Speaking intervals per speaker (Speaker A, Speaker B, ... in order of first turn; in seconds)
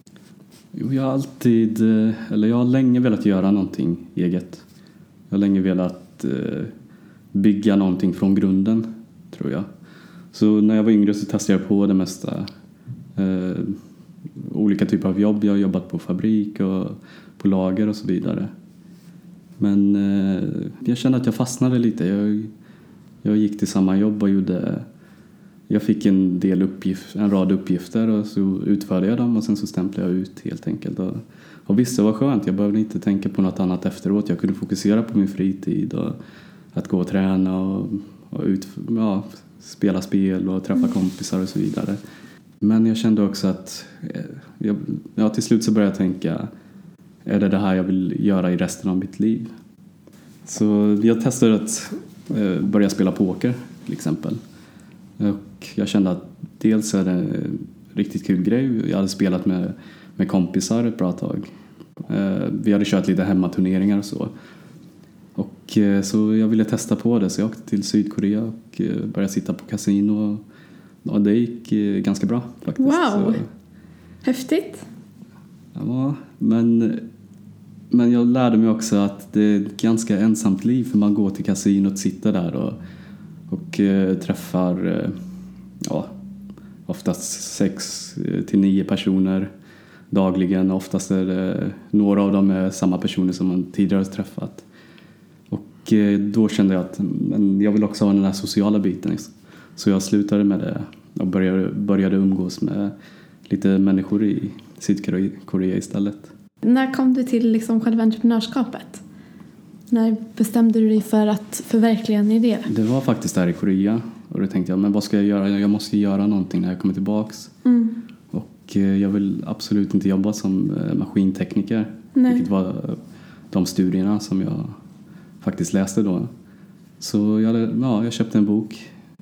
Speaker A: 0.7-4.6, 5.3-6.7, 7.3-9.7, 10.3-12.5, 13.2-13.8, 14.4-18.5, 19.6-22.5, 23.2-24.8, 25.7-36.1, 36.7-42.0, 42.6-46.5, 47.2-49.5, 50.5-54.4, 55.2-61.5, 62.1-64.3, 65.3-70.4, 71.0-73.5, 75.7-77.0, 77.9-82.8, 83.5-85.2, 85.8-86.1, 86.9-89.5, 90.1-94.6, 95.5-102.9, 103.5-106.3, 112.7-117.5, 118.3-123.0, 123.5-124.7, 125.4-126.3, 127.0-128.8
Speaker B: 72.8-73.4, 74.2-74.8, 106.6-109.0, 109.9-112.7, 117.6-118.0, 122.2-122.4